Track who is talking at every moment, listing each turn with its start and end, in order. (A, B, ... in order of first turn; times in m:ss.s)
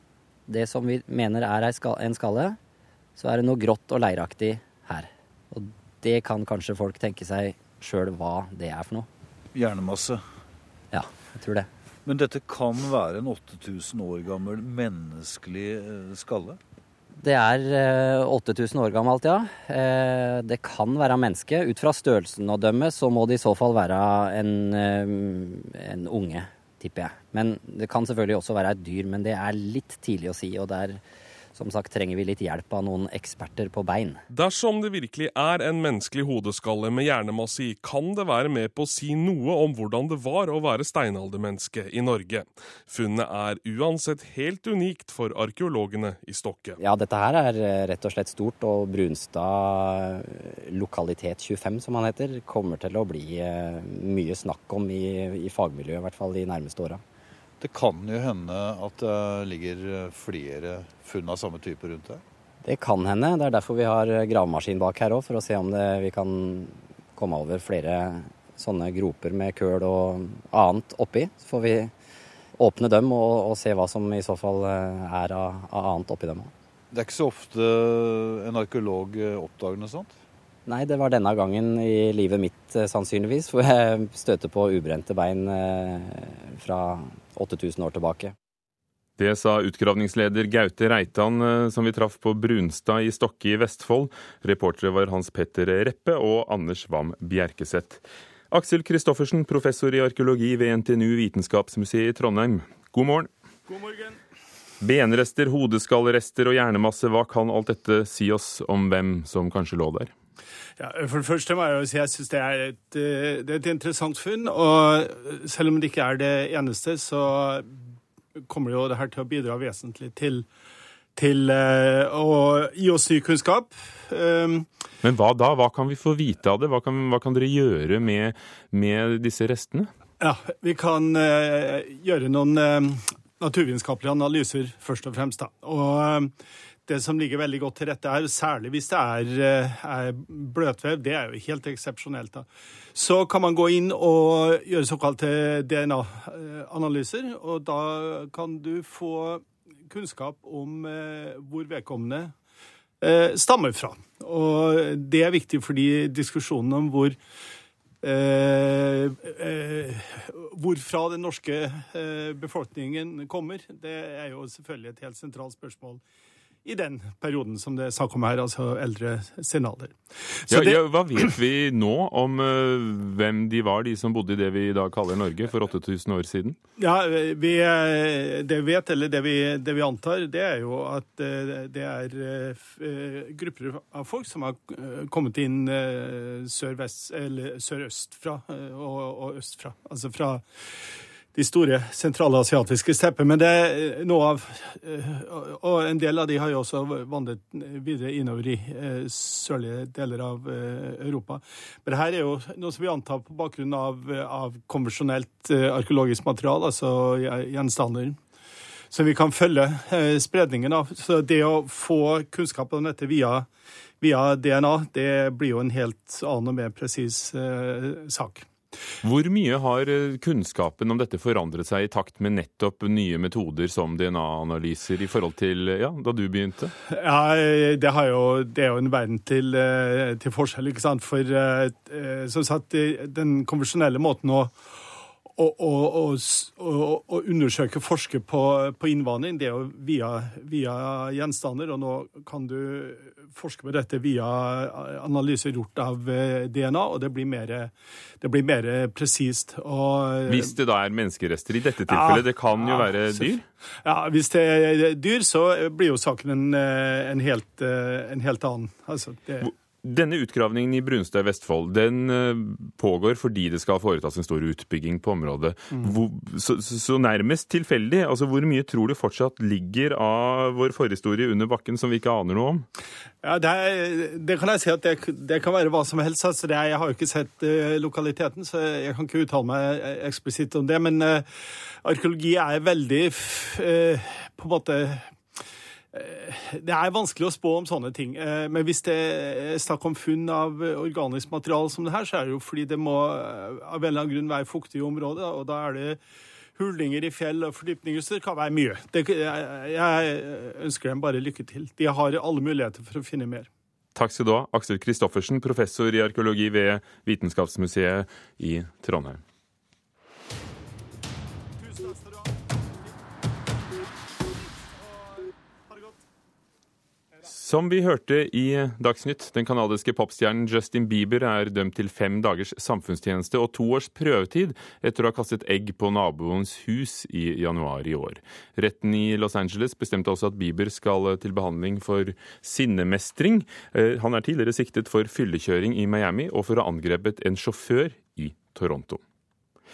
0:00.5-0:02.6 A
0:03.2-0:09.1 A
0:09.5-0:10.2 B
0:10.9-0:11.7 A
0:12.0-0:16.6 B
0:17.2-0:31.0 A
0:31.5-0:34.2 A
0:34.3-0:46.8 C
0:46.8-0:57.0 A
0:57.6-1:02.2 B
1:02.6-1:11.9 A
1:12.6-1:16.5 A
1:16.9-1:20.1 B
1:20.6-1:28.3 A
1:29.2-1:43.3 D
1:43.7-1:44.2 E
1:44.8-1:50.1 D
1:50.8-1:57.8 E
1:58.4-2:00.5 E
2:01.1-2:04.7 E
2:05.0-2:09.9 D
2:10.2-2:16.3 E
2:16.8-2:32.3 E
2:33.0-2:37.2 E
2:38.0-2:46.0 E
2:46.6-2:50.8 E
2:50.5-2:56.6 D
2:56.8-3:10.4 E
3:11.3-3:28.2 E
3:28.9-3:33.5 E
3:34.0-3:38.5 E
3:39.0-3:46.7 D
3:46.9-3:54.6 E
3:55.3-4:10.5 E
4:10.3-4:13.4 D
4:11.9-4:13.3 E
4:13.8-4:19.5 E
4:19.4-4:32.6 D
4:33.2-4:41.3 E
4:41.8-4:45.1 E
4:45.9-4:56.0 E
4:56.6-5:03.5 E
5:03.9-5:09.2 D
5:11.6-5:12.3 E
5:17.3-5:39.0 D